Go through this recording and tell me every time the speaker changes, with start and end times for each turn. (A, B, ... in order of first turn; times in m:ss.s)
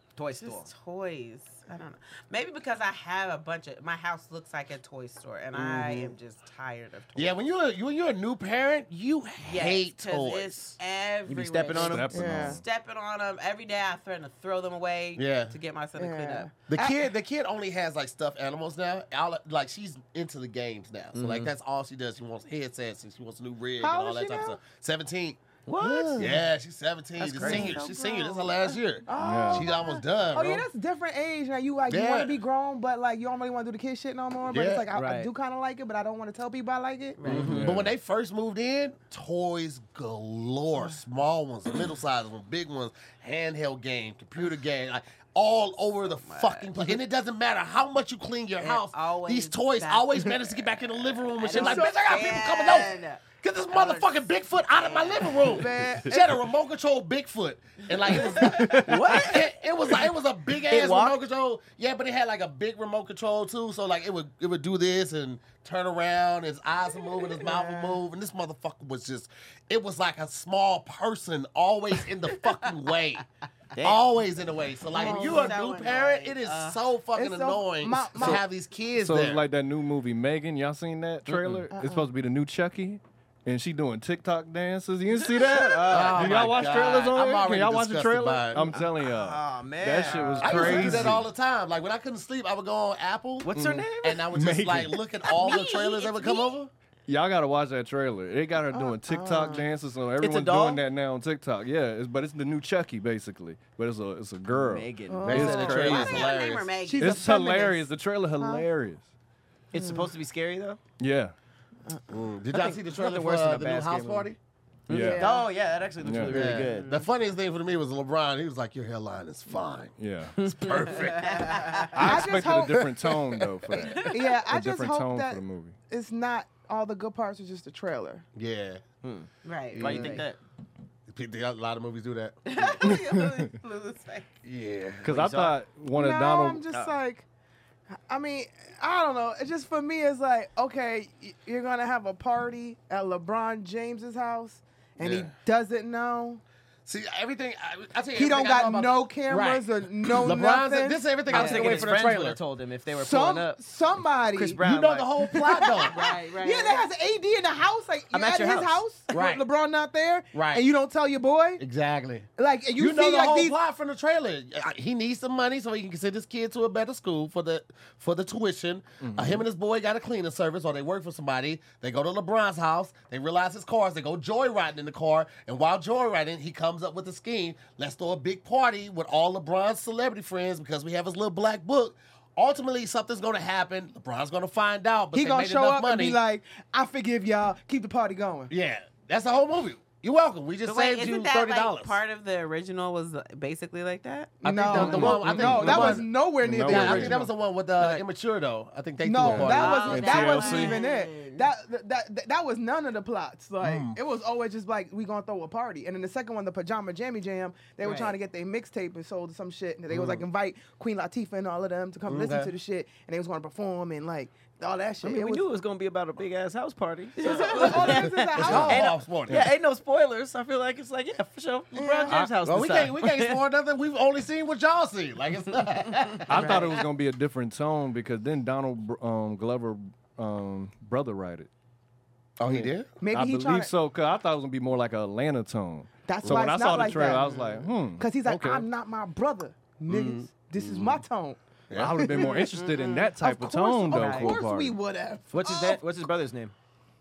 0:00.2-0:00.7 A
0:00.4-0:07.4 B
0:05.5-0:06.1 C
0:07.1-0:10.8 C
0:09.4-0:16.8 B
0:11.2-0:12.3 A
0:11.8-0:12.6 D
0:12.1-0:12.6 E
0:15.2-0:15.6 C
0:16.0-0:16.9 E
0:16.7-0:25.4 C
0:21.1-0:21.5 A
0:23.8-0:24.6 E
0:25.6-0:26.4 A
0:25.8-0:26.3 E
0:26.2-0:30.7 C
0:27.2-0:28.8 B
0:27.2-0:27.8 A
0:29.1-0:37.4 E
0:29.2-0:29.7 D
0:31.9-0:32.4 C
0:34.5-0:34.9 C
0:34.9-0:35.3 A
0:37.2-0:37.7 B
0:37.2-0:37.9 A
0:37.2-1:13.2 C
0:46.1-0:46.7 B
0:48.6-0:50.4 B
0:51.4-0:55.6 B
0:51.5-0:52.0 E
0:55.4-0:56.3 E
0:57.9-0:58.9 B
0:58.6-0:59.5 A
1:00.6-1:01.2 A
1:07.4-1:08.0 E
1:13.8-1:14.0 A
1:13.8-1:19.4 C
1:14.9-1:15.6 E
1:14.9-1:16.8 B
1:17.2-1:18.4 E
1:19.0-1:31.2 D
1:21.3-1:21.6 A
1:21.7-1:22.1 E
1:25.2-1:26.2 B
1:25.2-1:26.7 A
1:25.9-1:28.6 C
1:28.5-1:31.2 A
1:30.4-1:36.7 C
1:33.4-1:34.3 A
1:33.5-1:35.0 D
1:35.2-1:36.6 B
1:37.1-1:46.1 D
1:38.7-1:39.7 E
1:40.2-1:40.8 A
1:44.5-1:46.1 A
1:45.1-1:46.2 E
1:45.3-1:46.7 C
1:45.8-1:47.2 B
1:46.9-1:47.8 E
1:47.0-1:49.1 D
1:48.4-1:48.6 E
1:49.7-1:50.8 A
1:49.7-1:50.1 E
1:51.0-1:51.3 D
1:52.1-1:54.4 C
1:52.5-1:54.3 A
1:54.9-1:57.0 A
1:54.9-1:55.2 D
1:54.9-1:55.5 E
1:56.0-1:56.6 D
1:56.3-2:02.2 C
2:00.0-2:00.9 D
2:00.4-2:01.2 A
2:01.2-2:01.9 B
2:01.9-2:05.8 D
2:02.0-2:02.9 E
2:02.8-2:03.9 C
2:03.7-2:08.2 E
2:08.3-2:08.8 C
2:09.0-2:10.4 A
2:09.4-2:09.8 B
2:09.7-2:10.2 C
2:09.8-2:10.2 E
2:11.1-2:12.6 C
2:12.4-2:14.3 B
2:12.8-2:13.4 D
2:14.4-2:15.4 C
2:15.0-2:16.7 D
2:15.1-2:15.6 A
2:15.9-2:17.2 E
2:16.7-2:17.0 A
2:18.1-2:26.4 E
2:25.0-2:25.3 C
2:26.8-2:32.4 C
2:28.2-2:31.4 E
2:31.3-2:33.6 A
2:31.3-2:31.8 B
2:32.9-2:34.6 E
2:34.3-2:35.1 A
2:34.6-2:36.0 C
2:35.2-2:41.6 E
2:35.9-2:36.9 B
2:38.1-2:38.8 A
2:39.1-2:39.4 C
2:40.3-2:40.6 C
2:41.6-3:06.2 C
2:42.4-2:43.6 E
2:49.0-2:49.4 D
3:05.1-3:08.5 E
3:08.5-3:12.0 C
3:10.6-3:14.3 B
3:14.4-3:17.3 E
3:14.4-3:16.1 C
3:14.7-3:17.3 D
3:16.6-3:20.2 C
3:19.0-3:35.4 E
3:19.2-3:20.8 D
3:19.5-3:21.5 B
3:23.6-3:24.0 C
3:27.8-3:28.1 A
3:29.9-3:30.2 C
3:32.0-3:32.5 C
3:35.0-3:43.4 A
3:37.2-3:38.9 E
3:37.7-3:39.5 C
3:41.7-3:42.2 E
3:42.1-3:46.8 C
3:46.3-3:51.5 D
3:52.4-3:52.9 C
3:53.0-3:53.7 E
3:53.1-3:58.7 D
3:56.0-4:01.4 E
3:56.2-3:56.7 C
3:59.9-4:01.0 C
4:01.7-4:02.2 C
4:01.7-4:04.8 D
4:01.9-4:02.4 E
4:02.3-4:03.1 B
4:03.2-4:05.8 E
4:03.9-4:04.3 B
4:05.3-4:06.5 A